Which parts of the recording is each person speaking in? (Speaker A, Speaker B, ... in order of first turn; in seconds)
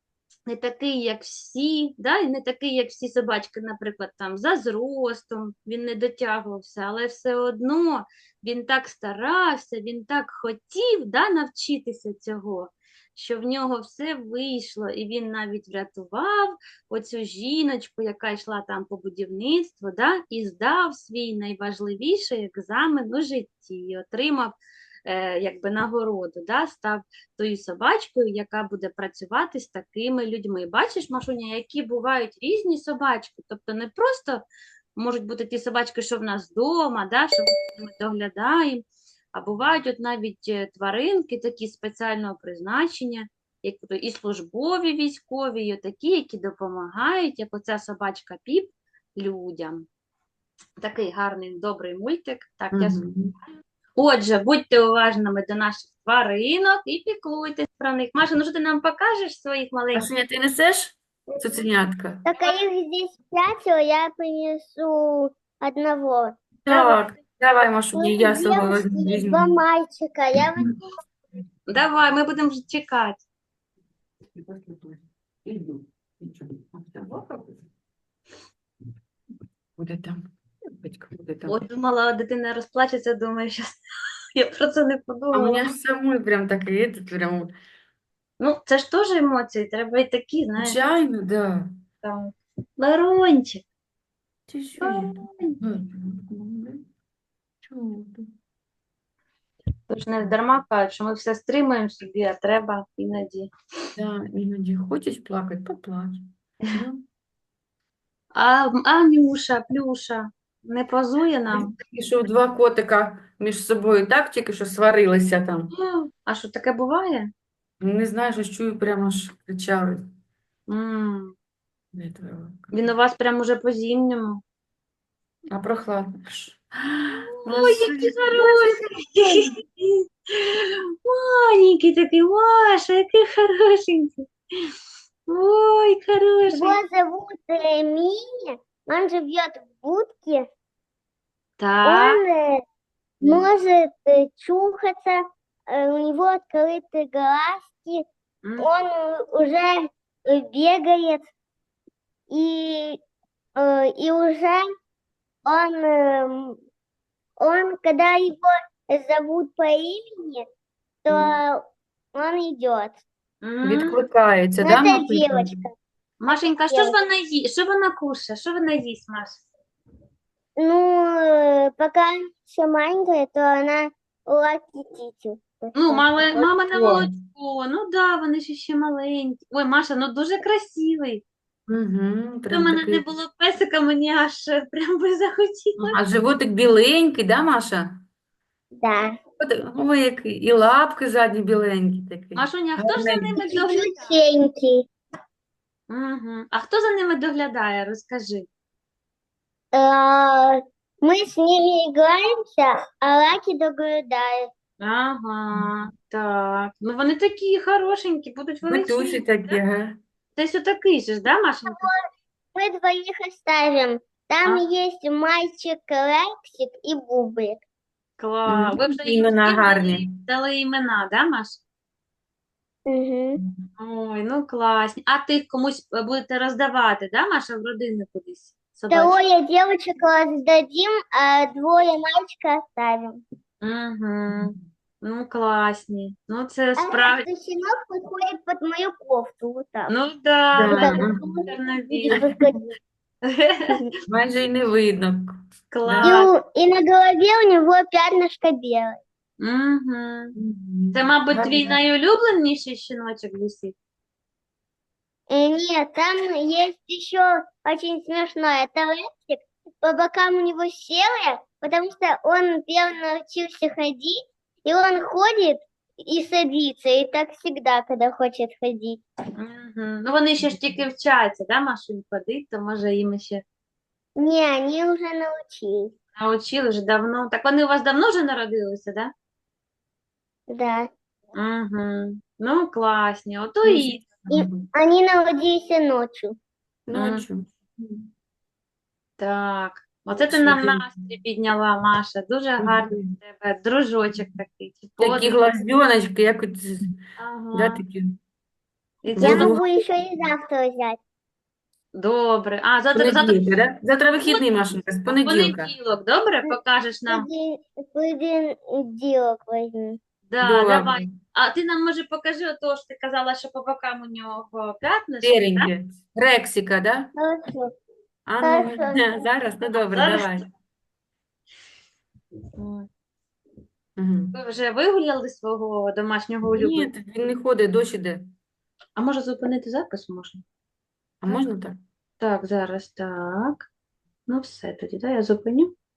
Speaker A: 0.5-34.4, 35.0-49.9, 50.8-53.1, 54.0-60.1, 66.7-67.0, 71.7-73.2, 81.5-83.8, 84.3-85.7, 88.4-90.8, 92.0-93.6, 94.8-95.6, 99.9-103.5, 108.3-111.8, 115.7-117.3, 120.7-121.3, 122.7-124.4, 127.1-134.6, 135.3-136.8, 141.6-142.2, 148.4-148.7, 163.4-164.0, 166.2-169.4, 175.8-181.2, 182.5-186.0, 192.4-194.2, 195.9-198.5, 204.8-209.6, 210.4-211.9, 218.2-221.6, 223.8-229.2, 233.6-237.3, 239.9-242.3, 243.2-243.9, 245.7-246.3, 249.4-250.3, 250.9-253.8, 269.4-273.4, 276.2-279.1, 281.4-284.1, 286.9-287.2, 289.2-295.4, 297.2-297.8, 299.0-299.6, 301.9-303.5, 304.2-304.5, 305.1-307.3, 310.3-315.7, 319.6-320.5, 322.6-322.9, 324.3-326.9, 329.0-330.4, 332.2-333.7, 334.3-335.7
Speaker B: 52.7-53.3, 59.9-62.3, 66.6-69.5, 74.3-77.7, 79.8-81.7, 85.3-87.5, 90.6-91.7, 94.5-96.9, 97.6-98.3, 104.0-107.0, 111.5-115.7, 117.8-120.0, 121.9-122.7, 125.5-128.6, 163.6-165.6, 176.3-177.1, 181.7-183.1, 185.8-188.0, 189.4-193.3, 208.7-210.0, 218.5-220.1, 234.3-234.6, 240.6-241.2, 242.1-242.5, 244.1-246.1, 250.4-251.8, 283.6-284.7, 286.9-288.1, 290.3-290.9, 292.6-293.1, 295.0-296.9, 297.5-298.1, 299.1-299.6, 302.9-305.7, 310.4-311.2, 315.2-317.1, 318.3-320.5, 324.0-324.4, 326.5-328.2, 331.2-331.8
Speaker C: 62.3-66.4, 67.9-70.8, 136.5-140.5, 141.8-142.6, 143.2-148.1, 148.6-151.3, 152.3-153.0, 153.6-154.7, 155.4-156.6, 157.4-160.4, 161.1-163.0, 164.6-165.7, 166.3-167.0, 170.6-176.2, 188.8-189.2, 193.4-194.9, 199.7-204.5, 211.7-212.0, 212.5-217.6, 222.9-223.4, 228.9-233.2, 236.8-239.9, 240.7-242.6, 246.0-249.0, 255.3-269.0, 274.2-275.9, 280.5-280.9, 284.3-286.4, 299.2-301.0, 307.1-310.0, 317.2-317.7, 318.4-319.2